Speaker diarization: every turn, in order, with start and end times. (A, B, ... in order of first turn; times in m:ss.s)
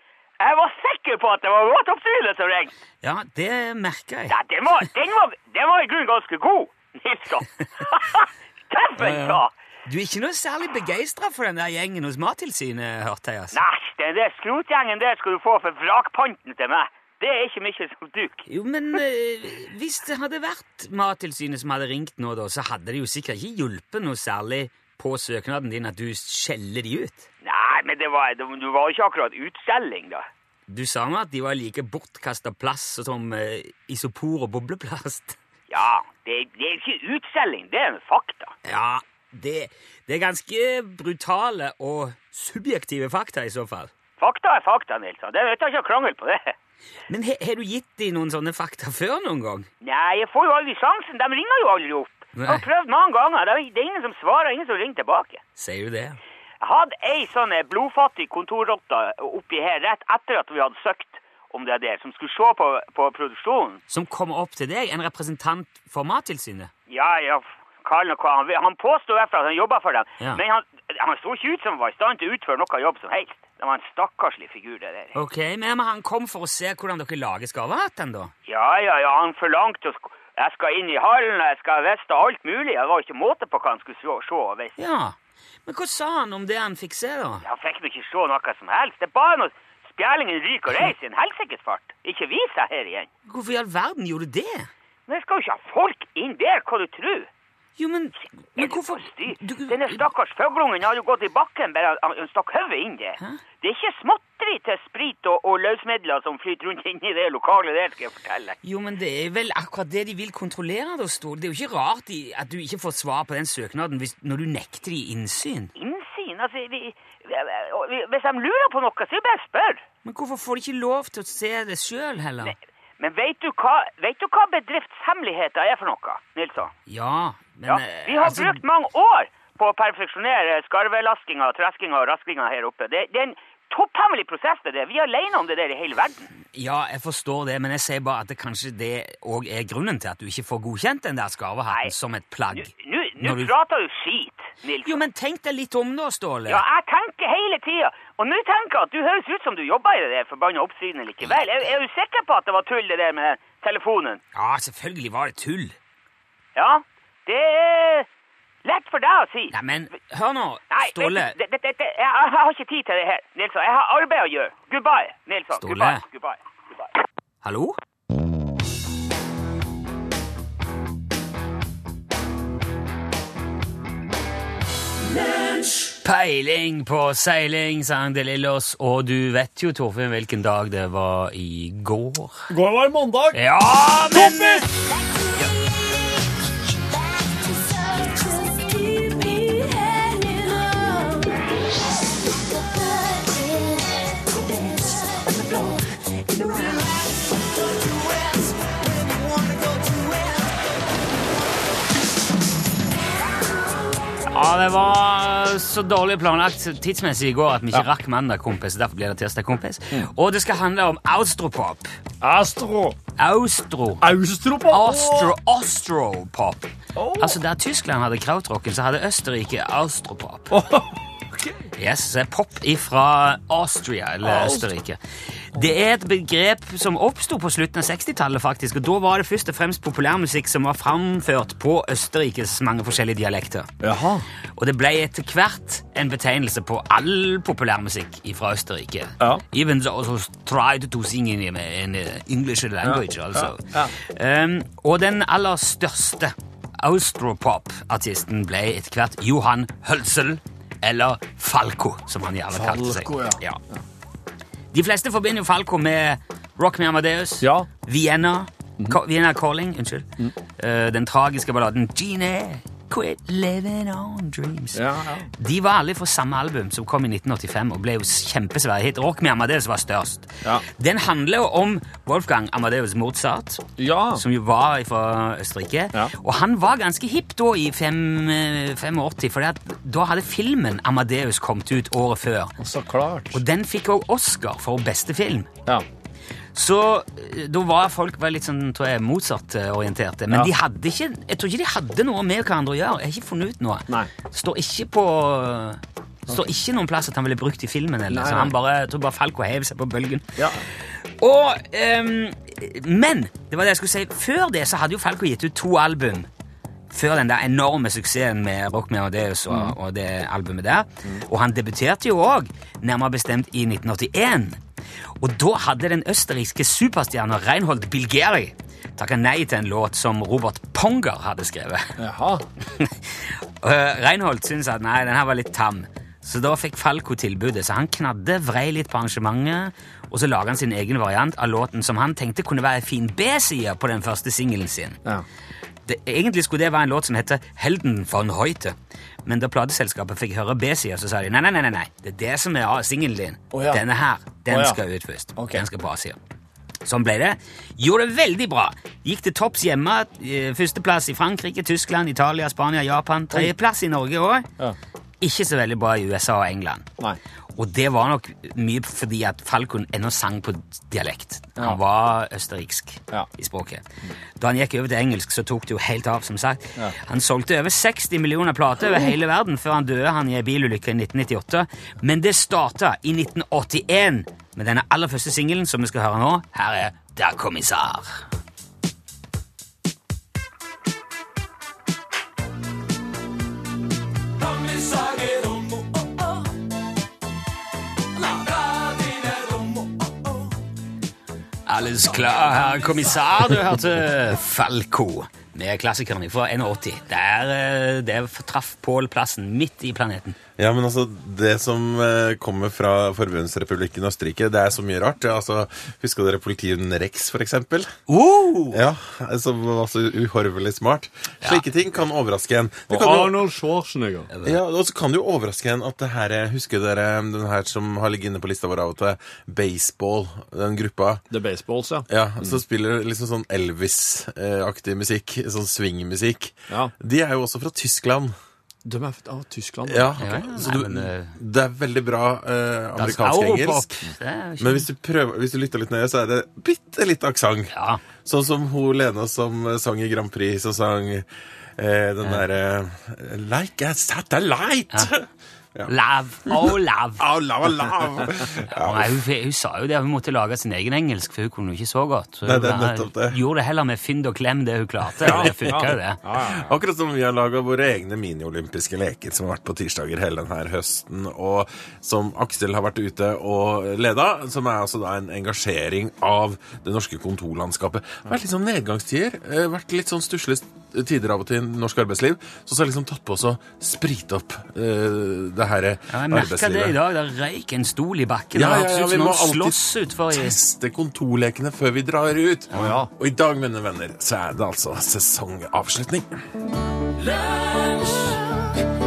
0:00.4-0:02.7 A
0:03.0-0:04.4 B
0:04.3-0:09.5 A
0:09.0-0:13.6 B
0:13.5-0:18.4 A
0:18.5-0:27.3 B
0:27.4-0:30.2 A
0:30.7-0:35.4 B
0:35.7-0:38.5 A
0:38.6-0:43.9 B
0:44.2-0:46.5 A
0:47.1-0:49.7 B
0:49.8-0:55.4 A
0:52.3-0:52.7 B
0:55.6-0:56.2 B
0:56.6-1:03.8 A
1:03.9-1:06.7 B
1:06.9-1:15.2 A
1:15.1-1:18.3 B
1:18.4-1:24.7 A
1:24.8-1:27.4 B
1:27.4-1:33.1 A
1:33.2-1:34.7 B
1:35.1-1:37.3 A
1:37.8-1:40.0 B
1:38.6-1:48.6 A
1:48.6-1:55.7 B
1:55.8-1:59.8 A
2:00.0-2:02.5 B
2:02.4-2:06.7 A
2:06.9-2:08.6 B
2:07.7-2:16.3 A
2:16.5-2:23.5 B
2:22.5-2:25.0 A
2:24.8-2:26.6 B
2:26.5-2:34.2 A
2:34.3-2:35.8 B
2:36.5-2:38.1 A
2:38.6-2:39.5 A
2:39.5-2:41.3 B
2:40.7-2:46.9 A
2:45.6-2:46.0 B
2:47.4-2:47.8 B
2:55.1-2:55.8 C
2:56.0-3:02.5 B
3:02.5-3:03.4 D
3:03.3-3:04.7 B
3:04.1-3:04.6 D
3:04.7-3:11.6 C
3:12.1-3:22.0 C
3:24.3-3:31.9 B
3:32.2-3:33.0 D
3:33.2-3:34.1 B
3:34.0-3:35.3 D
3:34.7-3:40.6 B
3:36.9-3:37.4 D
3:40.5-3:41.7 D
3:41.8-3:53.7 B
3:44.2-3:44.7 D
3:53.8-3:54.2 D
3:54.5-4:13.6 B
4:02.8-4:03.9 D
4:12.5-4:13.8 D
4:14.7-4:33.6 B
4:17.4-4:17.7 D
4:24.7-4:25.3 D
4:33.8-4:34.2 D
4:34.1-4:42.6 B
4:42.6-4:43.4 D
4:43.3-4:45.5 B
4:46.5-5:06.3 B
4:58.1-4:58.5 D
5:00.4-5:00.6 D
5:06.9-5:14.6 B
5:09.5-5:09.7 D
5:15.2-5:22.0 B
5:22.0-5:22.4 D
5:22.7-5:35.0 B
5:35.8-5:46.2 B
5:43.5-5:43.8 D
5:44.5-5:44.8 D
5:45.4-5:45.6 D
5:46.8-5:54.5 B
5:55.2-5:56.9 B
5:57.6-6:18.2 B
6:24.4-6:26.4 C
6:28.2-6:30.3 C
6:31.6-6:40.4 B
6:40.6-6:47.9 E
6:48.1-6:48.8 B
6:48.7-6:53.4 E
6:52.9-6:54.3 D
6:54.3-6:54.6 B
6:54.4-7:01.2 E
7:01.3-7:02.6 D
7:02.1-7:08.3 E
7:08.8-7:10.1 D
7:09.9-7:14.0 E
7:10.2-7:11.4 B
7:13.0-7:14.9 B
7:14.6-7:21.2 E
7:17.7-7:18.0 B
7:21.8-7:25.9 E
7:25.9-7:27.2 B
7:26.5-7:29.2 E
7:28.7-7:36.2 B
7:32.4-7:33.4 E
7:35.2-7:57.0 E
7:35.2-7:36.7 D
7:56.1-8:00.6 B
7:58.5-8:06.3 E
8:02.7-8:03.0 B
8:02.7-8:03.1 D
8:07.2-8:08.7 C